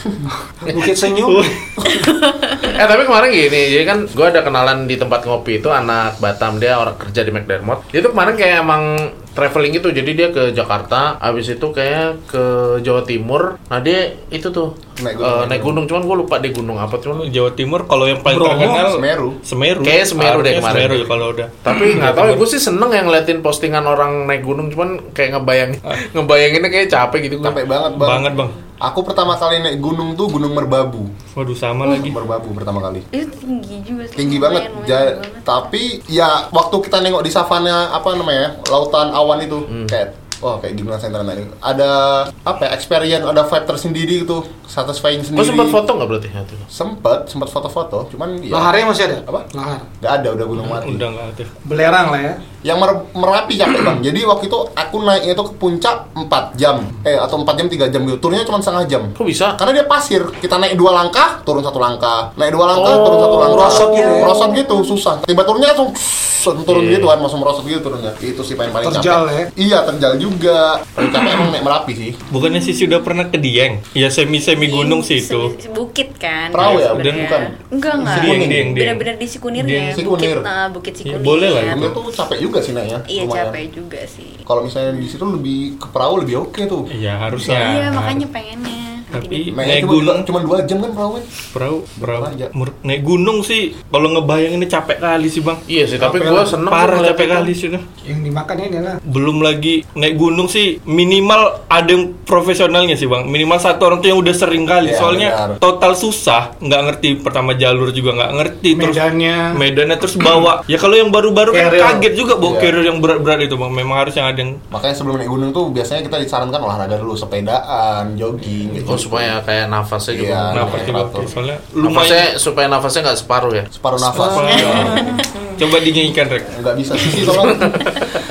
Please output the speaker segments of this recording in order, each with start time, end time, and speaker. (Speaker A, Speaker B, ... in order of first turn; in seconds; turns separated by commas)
Speaker A: 0.2-1.5, Speaker B: 1.2-1.7, Speaker C: 1.8-2.8, Speaker D: 2.6-17.3, Speaker E: 15.0-15.8, Speaker B: 17.2-22.4, Speaker A: 18.2-18.9, Speaker E: 18.8-19.4, Speaker D: 19.8-21.1, Speaker D: 21.6-27.6, Speaker E: 27.4-28.3, Speaker B: 28.0-28.6, Speaker E: 28.8-31.1, Speaker B: 31.3-32.2, Speaker E: 31.8-33.0, Speaker C: 33.1-35.7, Speaker E: 34.1-45.8, Speaker D: 39.7-39.9, Speaker D: 45.4-46.7, Speaker E: 46.7-48.7, Speaker A: 48.5-49.9, Speaker E: 50.0-51.0, Speaker B: 50.6-51.5, Speaker A: 51.6-52.4, Speaker E: 52.6-72.2, Speaker D: 59.2-59.6, Speaker D: 62.7-63.8, Speaker C: 63.4-64.9, Speaker A: 63.5-64.3, Speaker D: 66.7-67.1, Speaker A: 68.8-69.5, Speaker B: 72.3-75.5, Speaker C: 72.3-73.1, Speaker C: 74.4-81.9, Speaker E: 76.5-78.8, Speaker B: 76.6-77.2, Speaker B: 78.0-80.0, Speaker E: 79.9-80.5, Speaker B: 81.0-82.0, Speaker E: 81.6-83.6, Speaker C: 83.1-85.1, Speaker E: 84.5-87.7, Speaker B: 86.9-88.2, Speaker C: 87.4-89.5, Speaker B: 89.1-90.3, Speaker E: 89.5-91.3, Speaker B: 91.5-95.6, Speaker E: 92.0-92.5, Speaker D: 95.7-97.5, Speaker A: 96.0-96.5, Speaker B: 96.6-97.8, Speaker A: 98.0-99.0, Speaker B: 99.0-114.6, Speaker E: 104.8-105.6, Speaker A: 108.7-109.6, Speaker A: 111.5-112.1, Speaker E: 112.4-112.7, Speaker E: 114.7-119.3, Speaker D: 118.8-120.9, Speaker E: 120.1-121.3, Speaker B: 120.5-122.3, Speaker D: 121.8-123.7, Speaker E: 123.7-125.2, Speaker B: 124.1-126.5, Speaker A: 124.1-125.1, Speaker C: 124.5-125.4, Speaker E: 126.5-127.7, Speaker D: 127.3-128.0